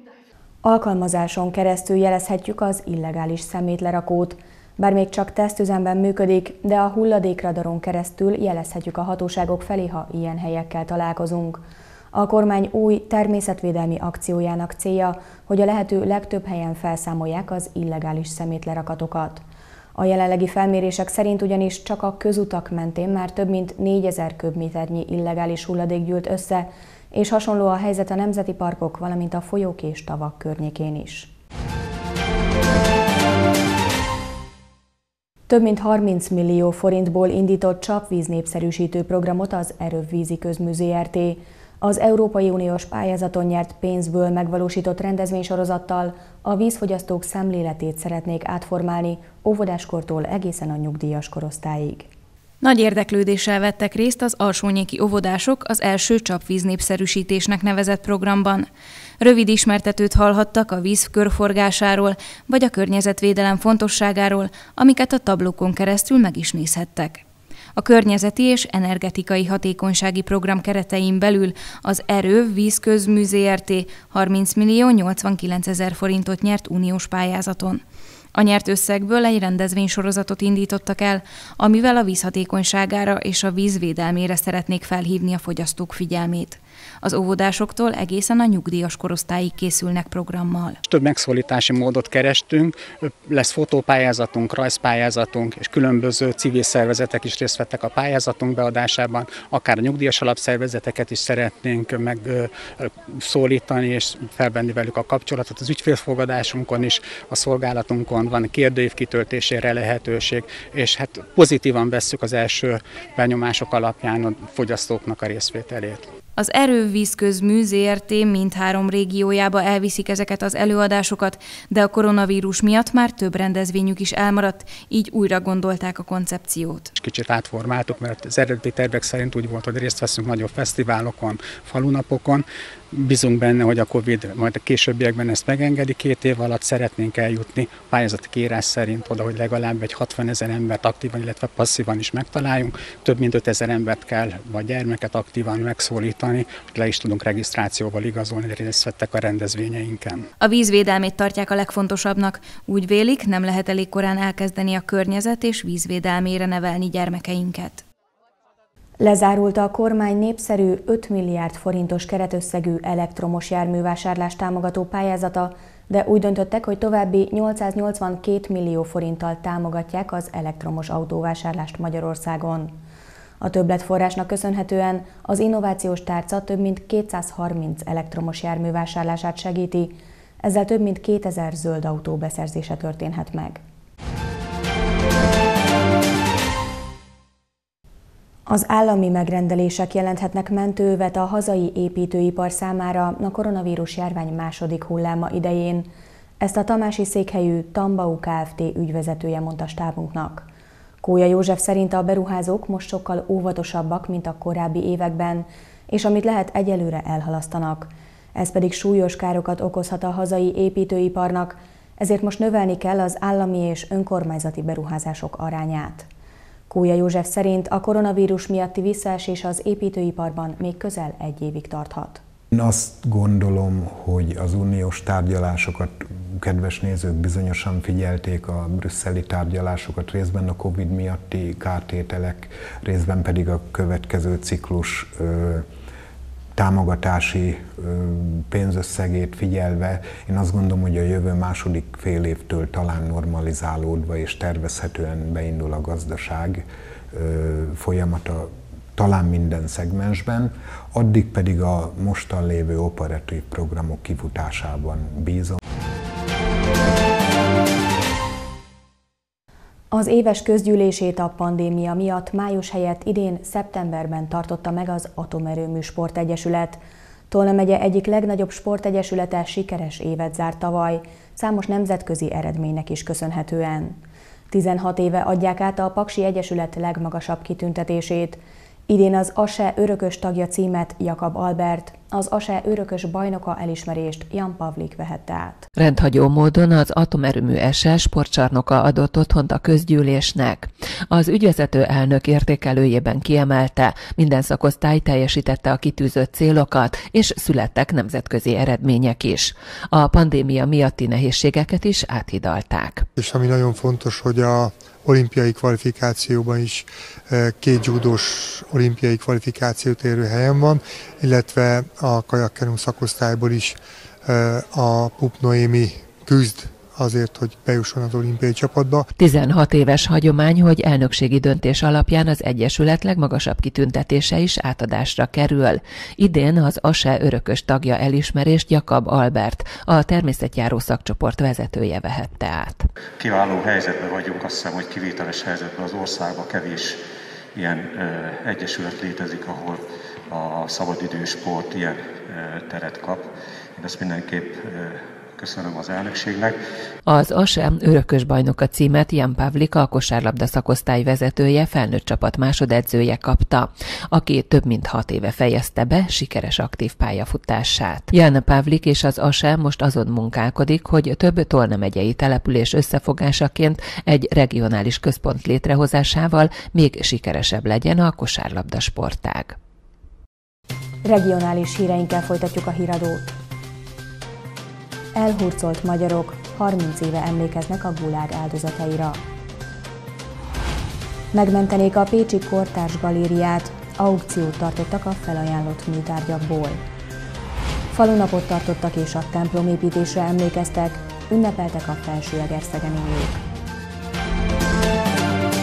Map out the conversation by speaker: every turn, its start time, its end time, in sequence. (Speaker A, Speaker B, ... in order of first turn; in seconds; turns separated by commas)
Speaker A: 0.6-11.6, Speaker A: 12.1-19.4, Speaker A: 19.9-31.3, Speaker A: 35.5-52.1, Speaker B: 52.6-58.7, Speaker B: 59.2-67.2, Speaker B: 67.8-77.8, Speaker B: 78.3-90.8, Speaker C: 90.8-116.1, Speaker B: 116.3-126.9, Speaker C: 127.0-150.3, Speaker B: 150.4-157.8, Speaker A: 159.0-172.7, Speaker A: 173.4-183.6, Speaker A: 188.5-195.9, Speaker A: 196.4-200.4, Speaker A: 201.0-216.1, Speaker A: 216.7-222.2, Speaker D: 222.5-235.7, Speaker D: 236.6-255.6, Speaker A: 259.9-266.8, Speaker A: 267.3-274.0, Speaker A: 274.5-285.7, Speaker E: 285.8-286.5, Speaker E: 287.7-288.4, Speaker E: 288.9-289.5, Speaker E: 290.3-290.6, Speaker E: 291.2-299.5, Speaker E: 300.1-303.0, Speaker F: 303.1-319.1, Speaker E: 319.2-319.7, Speaker E: 321.1-321.4, Speaker E: 322.4-322.8, Speaker E: 323.6-325.5, Speaker E: 326.3-329.0, Speaker E: 329.5-332.7, Speaker G: 333.2-337.0, Speaker G: 337.6-339.8, Speaker G: 340.3-343.2, Speaker G: 343.8-346.5, Speaker E: 347.2-353.6, Speaker E: 354.1-369.4, Speaker A: 371.0-373.3, Speaker A: 375.1-379.2, Speaker A: 381.3-386.8, Speaker A: 387.9-393.4